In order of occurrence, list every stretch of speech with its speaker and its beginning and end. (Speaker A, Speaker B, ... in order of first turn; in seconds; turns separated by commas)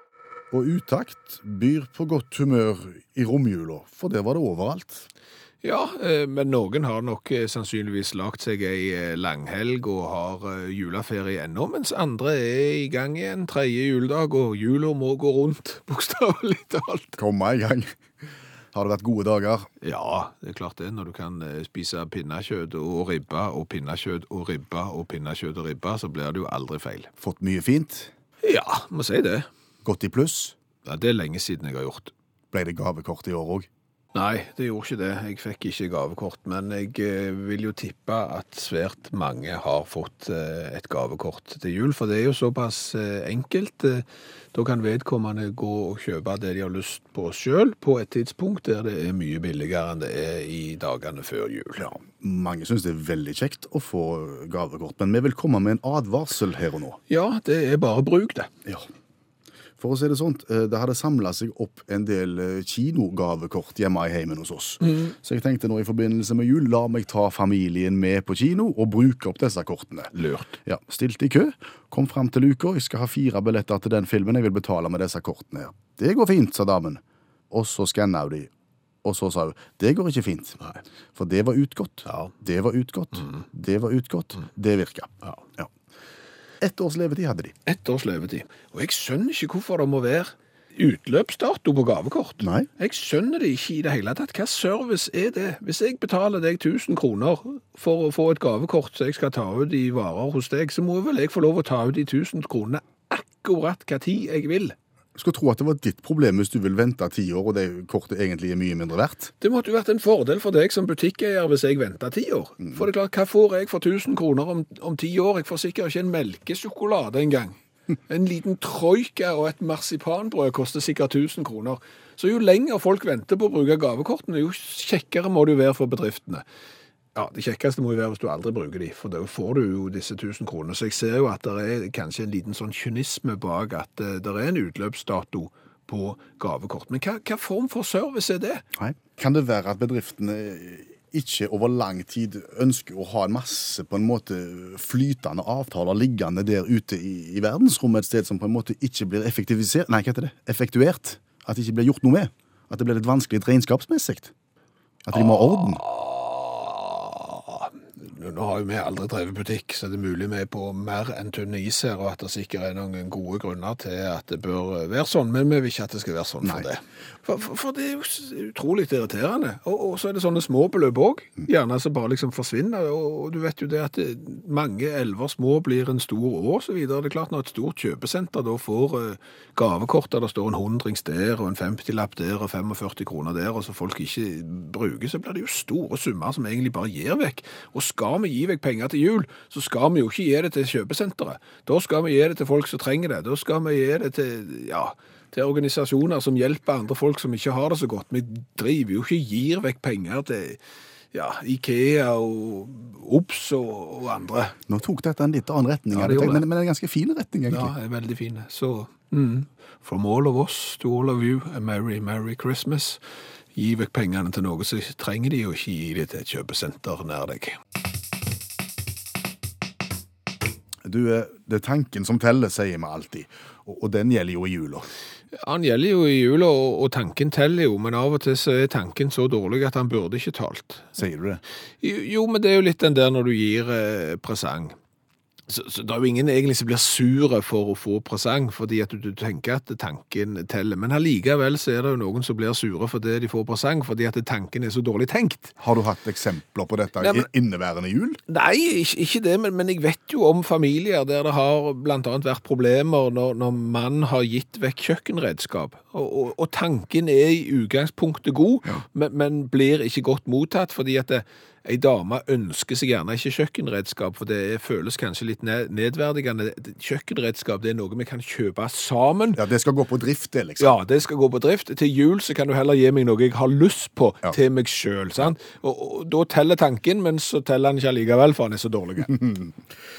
Speaker A: 0.5-5.1, Speaker B: 5.6-17.2, Speaker A: 17.2-18.0, Speaker A: 18.7-19.7, Speaker B: 19.8-27.1, Speaker A: 27.2-28.1, Speaker B: 28.4-29.5, Speaker A: 29.8-30.6, Speaker B: 30.9-32.1, Speaker A: 32.5-33.7, Speaker B: 34.1-51.9, Speaker A: 51.8-57.0, Speaker B: 57.1-58.5, Speaker A: 59.8-70.1, Speaker B: 70.2-70.6, Speaker A: 70.7-78.5, Speaker A: 79.0-80.6, Speaker A: 81.2-85.7, Speaker B: 82.1-82.3, Speaker A: 86.6-87.5, Speaker B: 87.7-104.8, Speaker A: 92.4-92.7, Speaker A: 105.2-109.3, Speaker B: 109.4-117.6, Speaker B: 118.1-126.4, Speaker B: 127.2-138.6, Speaker A: 138.8-154.3, Speaker A: 155.1-155.8, Speaker B: 155.1-200.6, Speaker A: 166.4-166.7, Speaker B: 201.1-204.6, Speaker A: 204.7-207.7, Speaker B: 205.9-206.4, Speaker B: 207.5-213.0, Speaker B: 213.6-217.6, Speaker A: 220.8-224.9, Speaker B: 225.4-230.9, Speaker A: 231.0-231.4, Speaker B: 231.8-234.8, Speaker B: 235.5-245.5, Speaker A: 245.6-248.2, Speaker B: 247.0-247.3, Speaker B: 248.3-269.4, Speaker A: 269.4-270.7, Speaker B: 270.6-279.2, Speaker A: 279.2-279.5